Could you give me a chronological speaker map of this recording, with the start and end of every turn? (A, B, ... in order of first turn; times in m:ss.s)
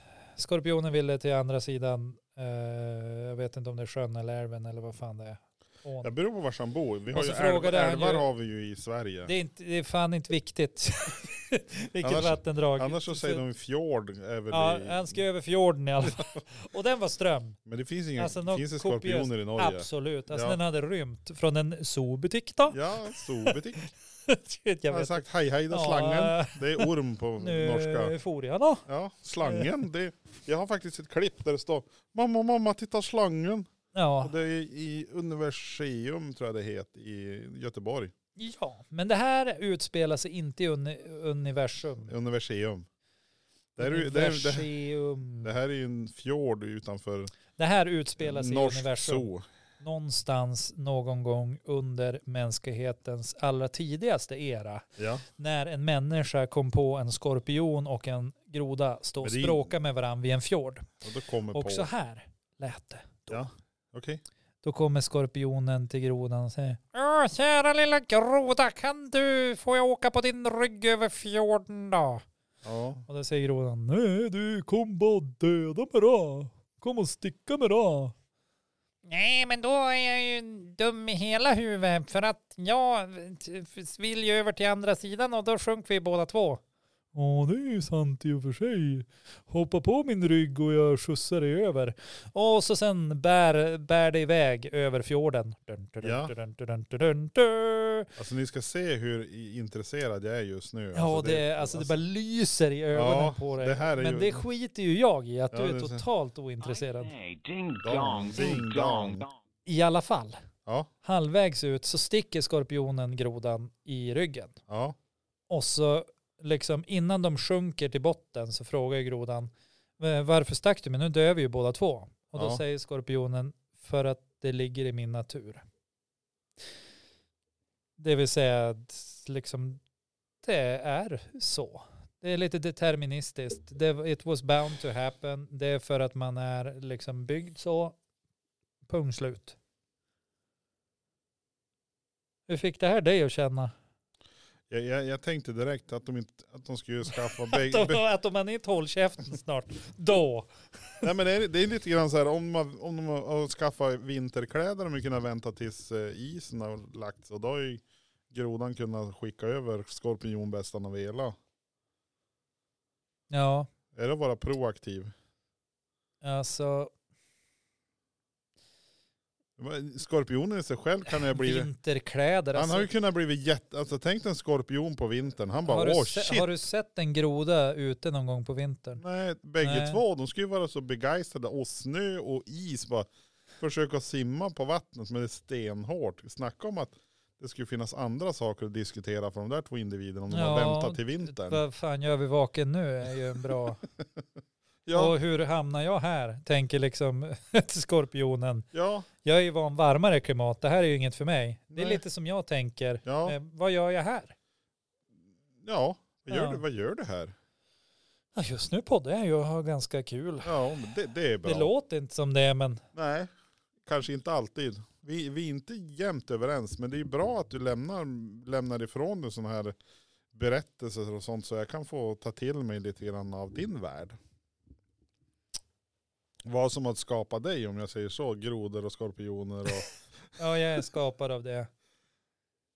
0:00.4-0:06.1 A
0:06.0-0:09.3 B
0:07.1-0:08.3 A
0:09.2-0:13.4 A
0:12.0-0:15.2 B
0:14.5-0:17.6 A
0:16.0-0:16.3 B
0:17.6-0:20.6 B
0:18.2-0:28.8 A
0:22.7-0:23.9 B
0:24.9-0:28.1 B
0:28.8-0:33.7 B
0:29.4-0:29.7 A
0:33.9-0:34.3 A
0:34.2-0:38.1 B
0:38.4-0:42.1 A
0:42.0-0:42.8 B
0:43.8-0:44.7 B
0:43.8-0:45.5 A
0:45.4-0:47.3 B
0:47.6-0:49.3 A
0:48.2-0:49.5 B
0:49.8-1:00.9 A
0:55.0-0:55.2 B
0:59.2-0:59.6 B
1:01.0-1:01.9 B
1:01.5-1:03.4 A
1:03.3-1:04.2 B
1:04.6-1:12.2 A
1:12.6-1:13.0 B
1:13.1-1:18.1 A
1:19.0-1:26.6 A
1:27.1-1:38.1 A
1:36.0-1:36.3 B
1:38.2-1:41.9 B
1:40.9-1:47.1 A
1:42.9-1:44.4 B
1:45.5-1:46.0 B
1:46.6-1:49.4 C
1:47.8-1:49.2 B
1:49.6-1:50.4 A
1:51.0-1:54.6 A
1:54.7-1:55.0 B
1:55.5-2:05.6 A
2:02.3-2:02.6 B
2:08.0-2:09.8 A
2:10.4-2:18.0 A
2:18.9-2:19.6 A
2:22.5-2:23.7 A
2:24.7-2:28.0 B
2:27.3-2:31.0 A
2:31.0-2:41.4 B
2:43.3-2:43.7 A
2:43.9-2:45.1 B
2:46.2-2:46.9 A
2:49.6-2:51.7 B
2:51.1-2:52.9 A
2:52.5-2:56.5 B
2:55.6-2:59.0 A
2:59.0-3:11.6 B
2:59.6-3:00.0 A
3:10.3-3:13.8 A
3:14.8-3:15.1 B
3:14.9-3:18.7 A
3:18.7-3:19.1 B
3:19.2-3:24.4 A
3:21.7-3:22.0 B
3:23.0-3:23.4 B
3:25.6-3:27.3 B
3:26.3-3:26.6 A
3:28.3-3:30.5 A
3:30.4-3:31.7 B
3:31.4-3:32.8 A
3:32.9-3:33.3 B
3:33.8-3:39.7 B
3:40.3-3:44.2 B
3:46.4-3:49.9 B
3:50.4-3:51.7 A